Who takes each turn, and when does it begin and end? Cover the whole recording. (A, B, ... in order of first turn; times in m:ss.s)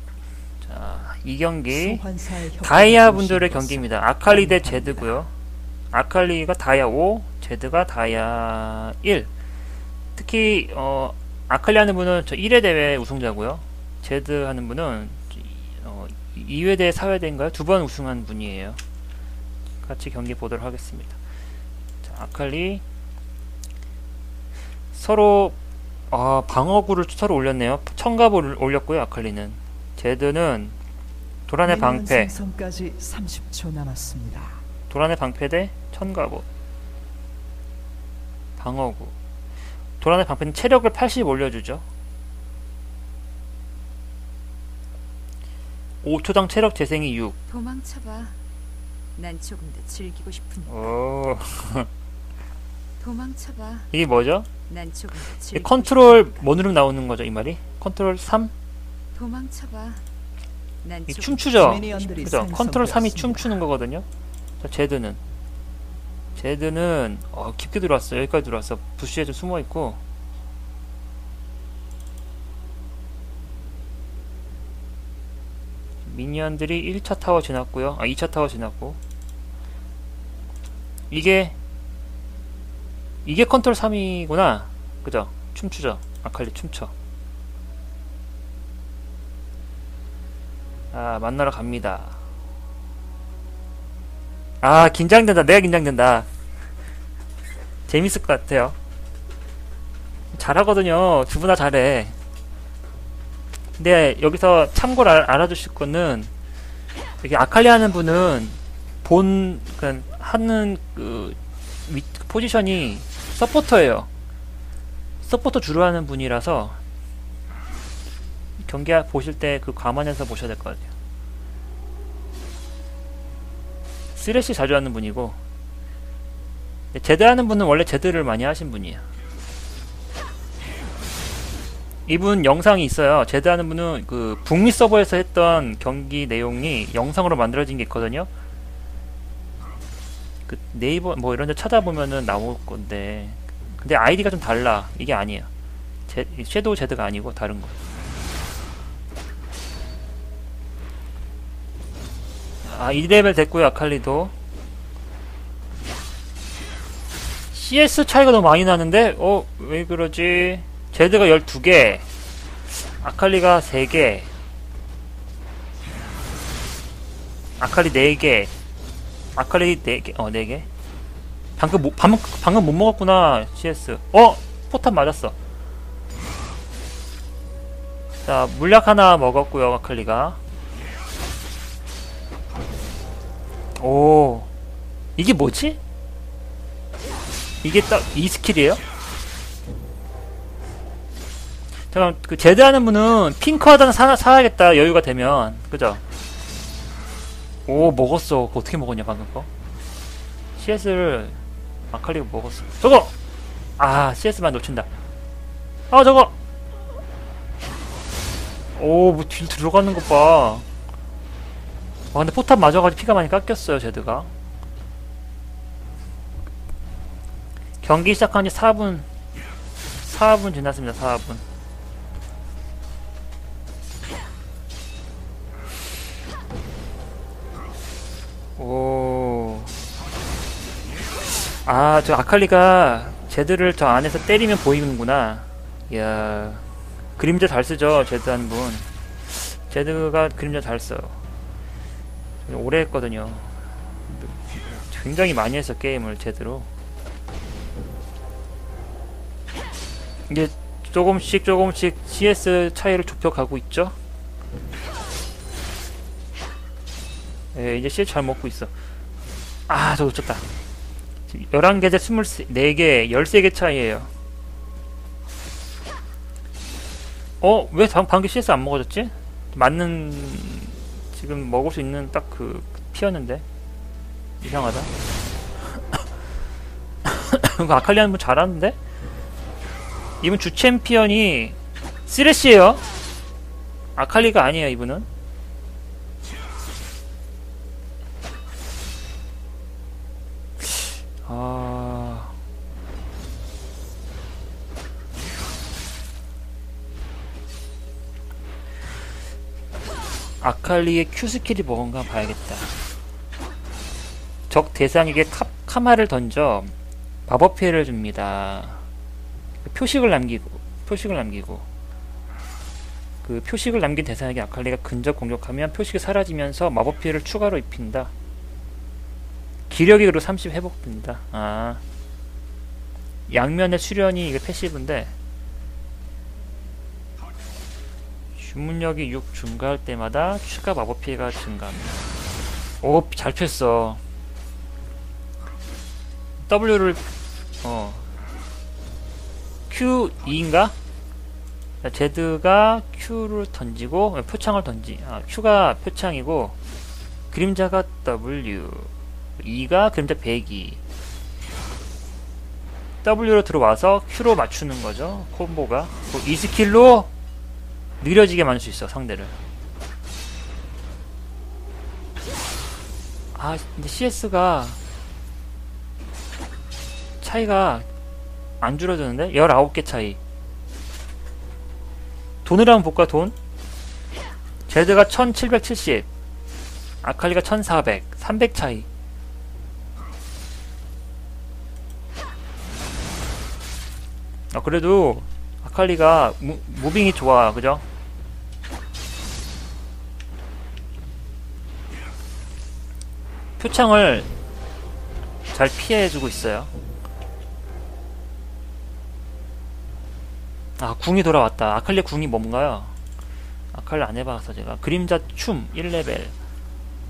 0:00.6-0:02.0 A
0:01.7-0:05.2 B
0:02.6-0:05.3 A
0:05.9-0:09.3 A
0:10.1-0:18.8 A
0:19.8-0:21.2 A
0:22.0-0:22.8 A
0:24.9-0:25.6 A
0:26.1-0:30.8 A
0:31.5-0:32.4 A
0:31.6-0:34.6 B
0:34.9-0:36.4 A
0:38.6-0:39.1 A
0:40.0-0:41.8 A
0:46.0-0:47.4 A
0:47.5-0:48.4 C
0:49.2-0:50.7 C
0:50.7-0:51.9 A
0:53.0-0:53.9 C
0:53.9-0:54.5 A
0:54.7-0:56.4 C
0:55.5-0:58.5 A
0:59.1-1:00.0 C
1:00.8-1:02.0 C
1:01.1-1:04.0 A
1:01.6-1:03.6 B
1:04.6-1:05.2 A
1:06.4-1:10.0 A
1:16.0-1:19.0 A
1:21.1-1:21.6 A
1:23.2-1:26.9 A
1:30.9-1:32.1 A
1:34.6-1:36.3 A
1:37.9-1:38.8 A
1:40.3-1:42.1 A
1:43.8-1:46.3 A
1:47.2-1:54.1 A
1:55.2-1:56.8 A
1:58.6-2:00.9 A
2:04.1-2:05.4 A
2:06.9-2:09.0 A
2:12.0-2:18.3 A
2:20.5-2:25.5 A
2:26.1-2:27.8 A
2:32.6-2:34.3 A
2:37.5-2:42.0 A
2:42.8-2:44.3 A
2:47.6-2:48.5 A
2:49.3-2:50.7 A
2:51.6-2:55.3 A
2:58.2-3:00.4 A
3:03.8-3:04.5 A
3:05.2-3:05.8 A
3:07.6-3:08.8 A
3:11.9-3:16.0 A
3:17.7-3:19.5 A
3:20.6-3:21.4 A
3:21.9-3:23.1 A
3:23.8-3:24.9 A
3:25.9-3:26.3 A
3:28.7-3:30.6 A
3:32.1-3:34.3 A
3:37.8-3:39.1 A
3:40.0-3:41.4 A
3:48.6-3:49.7 A
3:51.3-3:56.6 A
3:57.2-4:01.2 A
4:02.4-4:03.5 A
4:04.1-4:06.7 A
4:10.3-4:14.0 A
4:17.5-4:18.7 A
4:19.7-4:20.4 A
4:21.3-4:24.1 A
4:27.4-4:33.4 A
4:34.4-4:34.9 A
4:37.0-4:38.8 A
4:40.2-4:42.8 A
4:44.0-4:45.1 A
4:50.6-4:52.3 A
5:00.4-5:02.7 A
5:04.5-5:06.7 A
5:07.3-5:08.8 A
5:09.6-5:11.6 A
5:13.2-5:18.1 A
5:19.7-5:21.8 A
5:23.3-5:25.1 A
5:28.4-5:31.9 A
5:32.8-5:34.0 A
5:36.4-5:37.0 A
5:37.6-5:38.0 A
5:39.7-5:40.7 A
5:41.8-5:46.6 A
5:47.3-5:50.8 A
5:53.0-5:57.1 A
5:58.0-5:59.3 A
6:03.3-6:04.8 A
6:07.2-6:07.9 A
6:08.6-6:10.2 A
6:12.4-6:13.3 A
6:14.7-6:16.1 A
6:17.0-6:18.9 A
6:24.5-6:27.8 A
6:33.6-6:34.3 A
6:35.5-6:36.7 A
6:40.8-6:42.9 A
6:43.7-6:46.3 A